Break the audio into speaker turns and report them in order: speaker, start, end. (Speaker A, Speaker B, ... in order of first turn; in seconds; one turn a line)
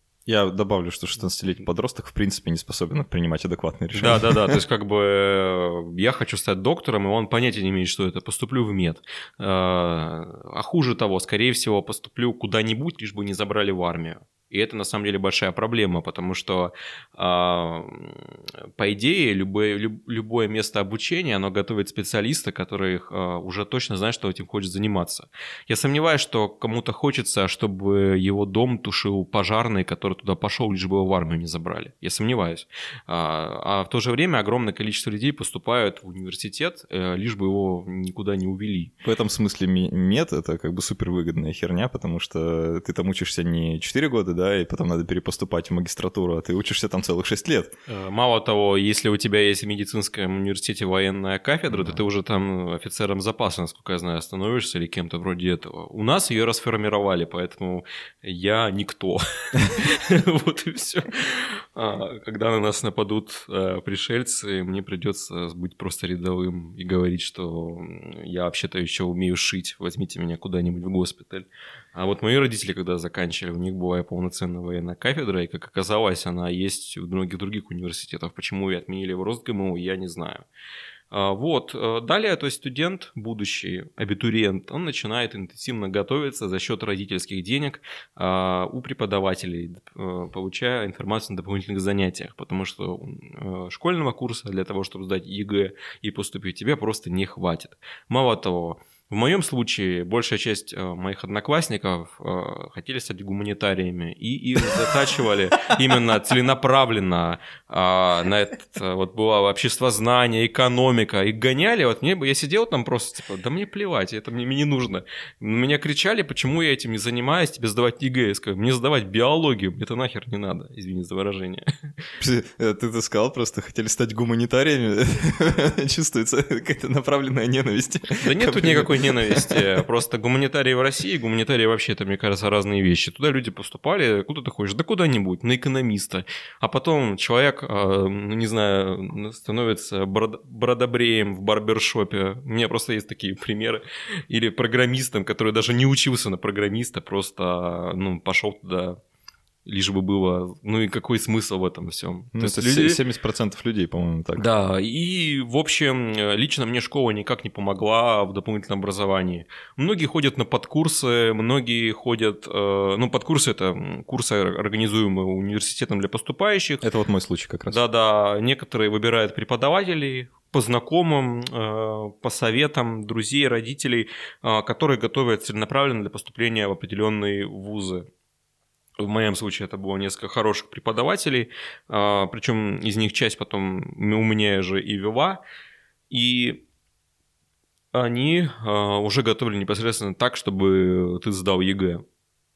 Speaker A: 0.3-4.6
Speaker B: 3.9-38.9
Speaker A: 39.0-47.8
Speaker B: 47.9-80.5
Speaker A: 51.7-52.0
Speaker B: 81.1-122.1
Speaker A: 122.2-129.7
Speaker B: 128.2-149.0
Speaker B: 149.7-153.0
Speaker A: 152.3-154.5
Speaker B: 154.4-166.8
Speaker A: 166.8-167.8
Speaker B: 167.7-178.1
Speaker B: 179.0-185.4
Speaker B: 186.1-186.6
Speaker B: 187.9-192.0